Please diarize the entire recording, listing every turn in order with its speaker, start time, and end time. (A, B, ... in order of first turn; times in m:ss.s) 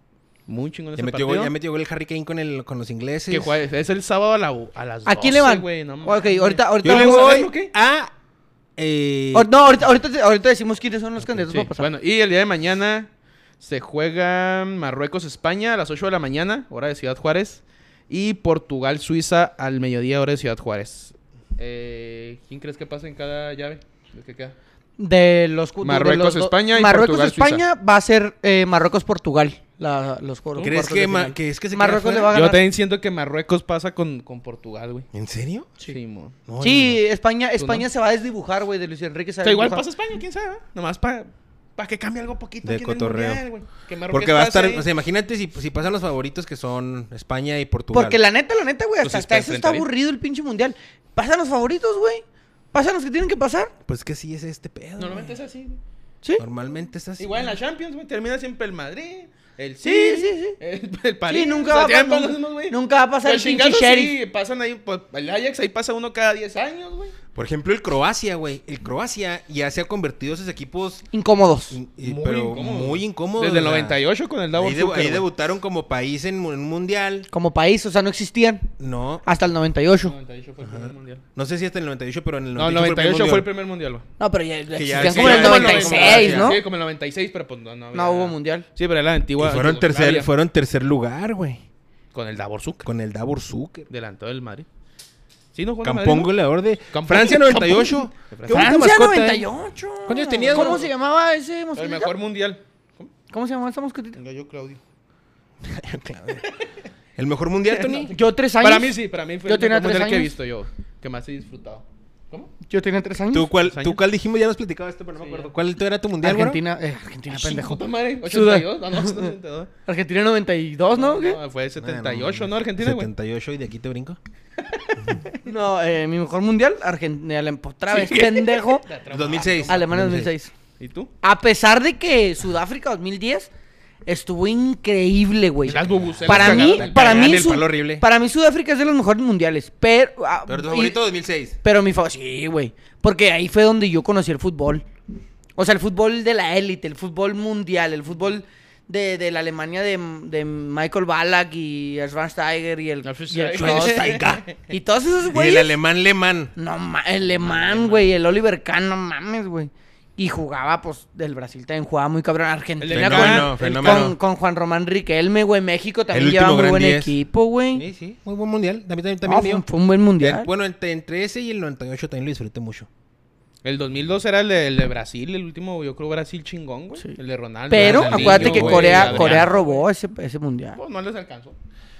0:00.5-0:01.5 A
0:01.0-0:03.5 B
0:03.3-0:07.7 A
0:05.0-0:07.5 C
0:06.8-0:08.1 B
0:08.8-0:09.5 B
0:09.3-0:11.9 C
0:11.3-0:13.1 A
0:13.6-0:24.5 A
0:25.0-0:32.6 C
0:25.8-0:27.6 A
0:30.6-0:30.8 A
0:30.6-0:32.3 B
0:32.3-0:35.1 A
0:35.1-0:35.7 B
0:35.9-0:36.3 A
0:36.4-0:37.0 B
0:36.6-0:39.8 C
0:37.6-0:37.9 A
0:39.4-0:44.9 A
0:42.6-0:43.4 B
0:44.1-0:48.2 B
0:47.9-0:53.7 C
0:49.0-0:49.9 A
0:53.9-0:55.4 B
0:55.0-0:55.8 A
0:56.4-0:57.4 B
0:57.2-1:07.2 A
0:59.8-1:00.6 C
1:01.3-1:04.2 C
1:07.3-1:11.1 B
1:11.1-1:11.8 C
1:11.7-1:14.0 B
1:12.0-1:15.3 A
1:14.5-1:17.3 B
1:17.3-1:18.7 C
1:18.8-1:19.2 B
1:19.2-1:20.1 C
1:20.0-1:21.2 A
1:20.6-1:23.5 B
1:22.6-1:24.0 A
1:24.2-1:26.6 C
1:24.7-1:26.6 B
1:24.9-1:30.3 A
1:27.9-1:28.6 C
1:29.4-1:31.6 B
1:32.1-1:32.8 A
1:32.8-1:33.9 B
1:33.9-1:34.6 A
1:35.5-1:36.3 A
1:35.8-1:39.5 B
1:36.9-1:38.7 A
1:38.5-1:42.1 C
1:40.0-1:40.8 B
1:40.3-1:40.9 A
1:41.8-1:43.1 A
1:43.3-1:44.2 C
1:44.1-1:44.8 A
1:45.6-1:46.4 B
1:47.2-1:48.1 B
1:47.7-1:52.5 A
1:48.1-1:50.3 C
1:52.7-1:53.5 C
1:53.3-1:56.6 B
1:53.6-1:54.0 A
1:55.2-1:55.5 A
1:56.2-1:59.3 C
1:57.3-1:59.7 A
1:59.9-2:01.4 C
2:00.9-2:03.1 A
2:01.8-2:04.2 B
2:04.6-2:05.3 A
2:05.4-2:08.9 C
2:07.9-2:09.8 A
2:09.1-2:10.3 B
2:09.7-2:10.5 C
2:10.8-2:11.1 A
2:11.2-2:13.5 C
2:14.0-2:21.0 C
2:15.6-2:17.6 A
2:16.0-2:18.0 B
2:20.5-2:21.6 B
2:21.6-2:24.8 C
2:25.6-2:35.7 C
2:33.0-2:34.6 A
2:33.5-2:34.4 B
2:35.3-2:36.5 B
2:36.6-2:47.8 C
2:37.3-2:38.1 A
2:42.8-2:44.1 A
2:42.9-2:44.2 B
2:46.1-2:47.1 B
2:47.7-2:49.6 B
2:49.2-2:50.5 C
2:50.2-2:52.9 B
2:53.6-2:59.9 A
2:57.7-3:00.8 C
2:57.7-2:59.5 B
3:00.7-3:01.6 A